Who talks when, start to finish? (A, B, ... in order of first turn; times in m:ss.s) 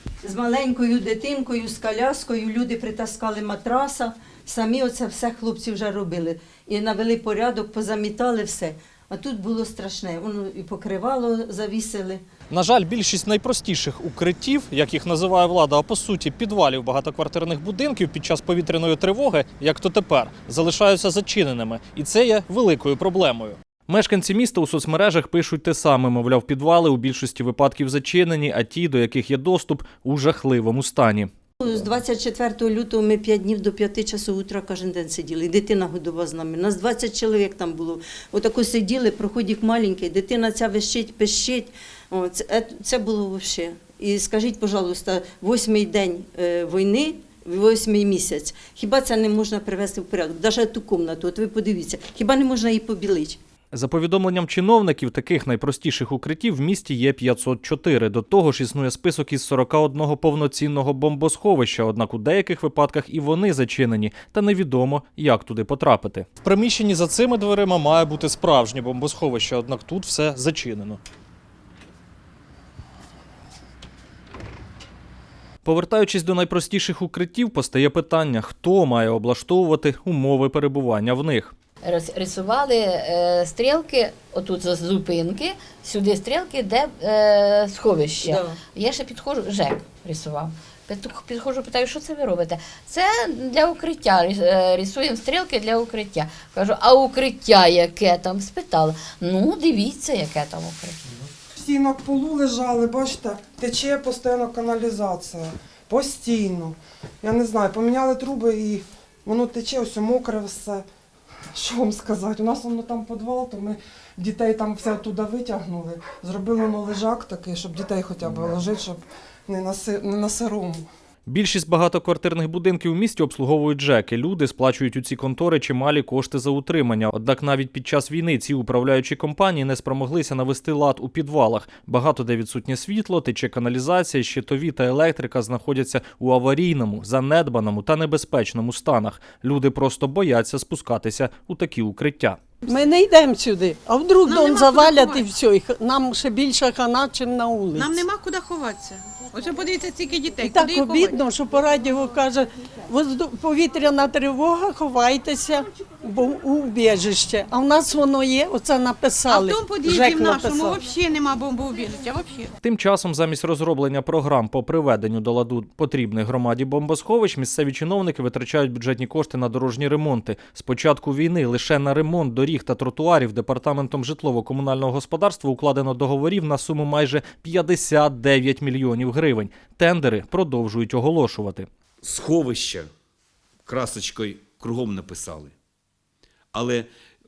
0:00.2-0:12.2 A
0:12.5-0:31.3 B
0:31.6-0:53.4 A
0:53.7-1:11.0 B
1:15.6-1:21.5 B
1:21.8-1:41.0 C
1:28.2-1:28.6 A
1:41.6-1:50.9 D
1:51.5-2:00.9 D
2:01.3-2:22.4 B
2:22.6-2:28.0 E
2:24.3-2:25.2 F
2:27.8-2:31.1 F
2:30.4-2:40.8 E
2:39.3-2:42.5 F
2:42.6-3:01.7 B
3:02.0-3:02.9 G
3:03.6-3:05.6 G
3:06.5-3:06.9 G